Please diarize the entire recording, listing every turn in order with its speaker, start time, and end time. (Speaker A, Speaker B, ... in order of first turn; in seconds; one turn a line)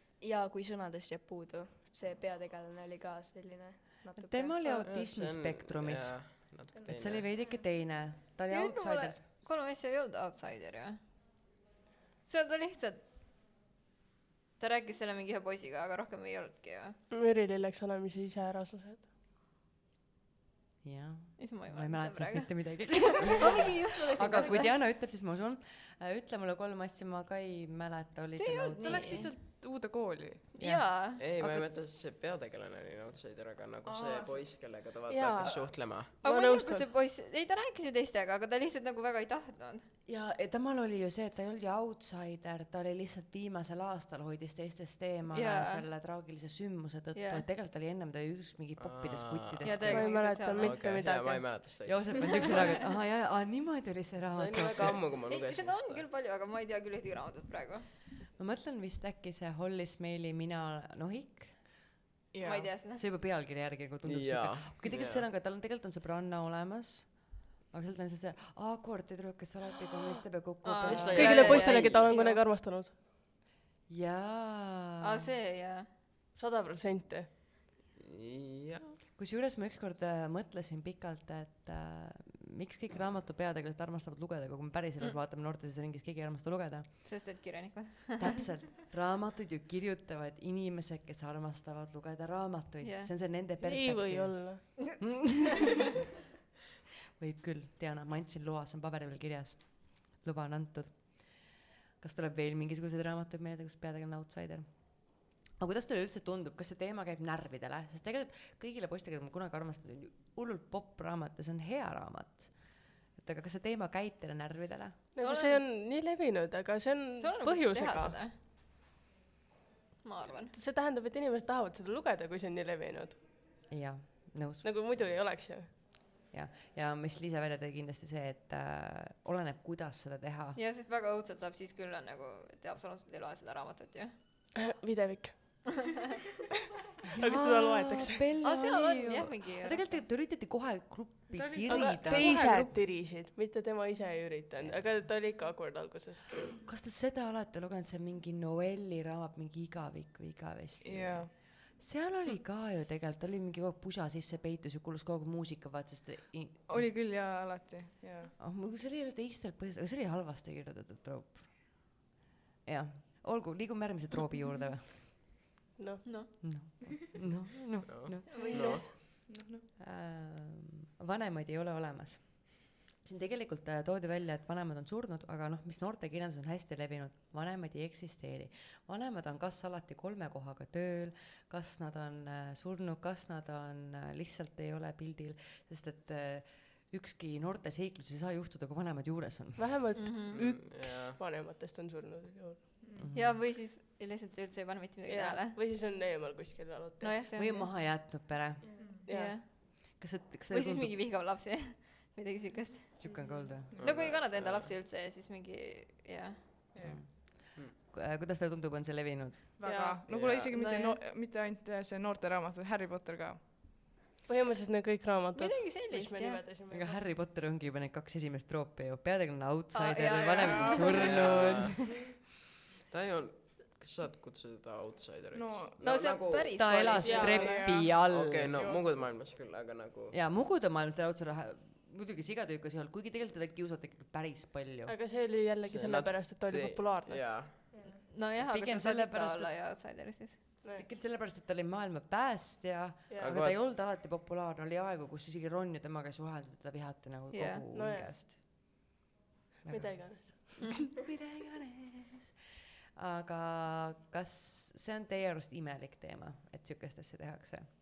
Speaker A: 0.2-4.9
Speaker B: 4.1-9.2
Speaker C: 4.8-7.3
Speaker D: 8.5-11.0
Speaker D: 12.3-13.0
Speaker D: 14.6-17.0
Speaker E: 17.1-19.1
Speaker B: 20.8-29.3
Speaker D: 21.4-24.7
Speaker D: 28.3-29.3
Speaker F: 28.8-30.5
Speaker D: 30.6-31.4
Speaker B: 30.6-30.8
Speaker C: 31.2-36.1
Speaker F: 33.9-34.8
Speaker E: 35.1-36.9
Speaker D: 36.2-39.9
Speaker B: 40.1-50.1
Speaker D: 45.3-45.8
Speaker D: 47.1-47.5
Speaker C: 48.8-49.8
Speaker D: 49.6-50.8
Speaker E: 49.9-51.5
Speaker C: 50.6-52.9
Speaker B: 51.8-55.0
Speaker C: 54.3-56.0
Speaker D: 55.3-57.9
Speaker B: 58.4-61.6
Speaker F: 62.3-62.7
Speaker D: 62.4-63.0
Speaker B: 63.0-71.5
Speaker C: 64.0-65.2
Speaker D: 70.6-72.4
Speaker C: 70.8-72.2
Speaker E: 71.1-72.9
Speaker B: 73.9-75.3
Speaker D: 75.0-75.9
Speaker E: 76.3-77.3
Speaker C: 78.0-79.0
Speaker B: 79.2-86.9
Speaker D: 87.0-88.3
Speaker B: 88.2-95.8
Speaker D: 92.8-93.1
Speaker E: 93.6-95.0
Speaker B: 97.2-101.5
Speaker B: 102.0-104.7
Speaker B: 105.6-115.0
Speaker E: 115.2-118.2
Speaker D: 115.2-115.6
Speaker D: 117.2-118.3
Speaker D: 120.0-120.5
Speaker E: 120.5-123.2
Speaker B: 123.7-125.2
Speaker E: 124.6-125.7
Speaker B: 126.3-130.6
Speaker D: 130.6-134.2
Speaker E: 134.7-135.8
Speaker B: 137.1-142.5
Speaker E: 137.2-138.2
Speaker D: 138.4-139.8
Speaker F: 141.3-142.9
Speaker E: 141.7-146.5
Speaker B: 146.6-157.0
Speaker F: 150.8-151.3
Speaker F: 156.7-158.3
Speaker B: 158.4-162.0
Speaker B: 162.7-165.0
Speaker E: 165.8-166.1
Speaker D: 166.1-166.3
Speaker B: 166.4-169.1
Speaker C: 167.9-168.9
Speaker D: 168.3-168.9
Speaker E: 168.4-168.8
Speaker F: 169.2-169.7
Speaker B: 169.8-189.7
Speaker E: 189.6-192.8
Speaker D: 190.0-190.4
Speaker C: 190.3-191.2
Speaker F: 192.8-193.1
Speaker B: 193.0-193.5
Speaker D: 193.1-195.6
Speaker E: 195.1-197.2
Speaker D: 197.0-197.7
Speaker B: 197.3-198.9
Speaker F: 198.8-199.1
Speaker E: 199.1-199.4
Speaker D: 199.1-200.0
Speaker B: 199.7-201.0
Speaker D: 200.5-206.4
Speaker B: 203.0-203.7
Speaker C: 203.7-204.8
Speaker F: 206.8-207.0
Speaker B: 206.8-209.5
Speaker F: 209.6-213.5
Speaker E: 209.6-210.0
Speaker C: 210.1-210.6
Speaker D: 210.5-211.0
Speaker E: 214.2-217.0
Speaker D: 215.3-216.4
Speaker B: 216.7-222.0
Speaker D: 219.7-221.3
Speaker F: 220.2-221.6
Speaker C: 221.0-221.9
Speaker C: 222.9-227.0
Speaker F: 225.3-225.8
Speaker D: 225.8-227.7
Speaker B: 226.6-228.6
Speaker F: 227.0-229.1
Speaker E: 227.0-227.6
Speaker C: 228.0-230.2
Speaker B: 230.1-234.9
Speaker E: 234.9-237.5
Speaker C: 235.7-237.5
Speaker D: 237.9-240.4
Speaker B: 238.3-239.5
Speaker B: 240.8-248.3
Speaker E: 243.1-243.4
Speaker C: 243.2-243.6
Speaker D: 247.3-247.6
Speaker E: 247.7-248.1
Speaker B: 249.7-252.3
Speaker E: 249.7-250.5
Speaker B: 253.0-257.7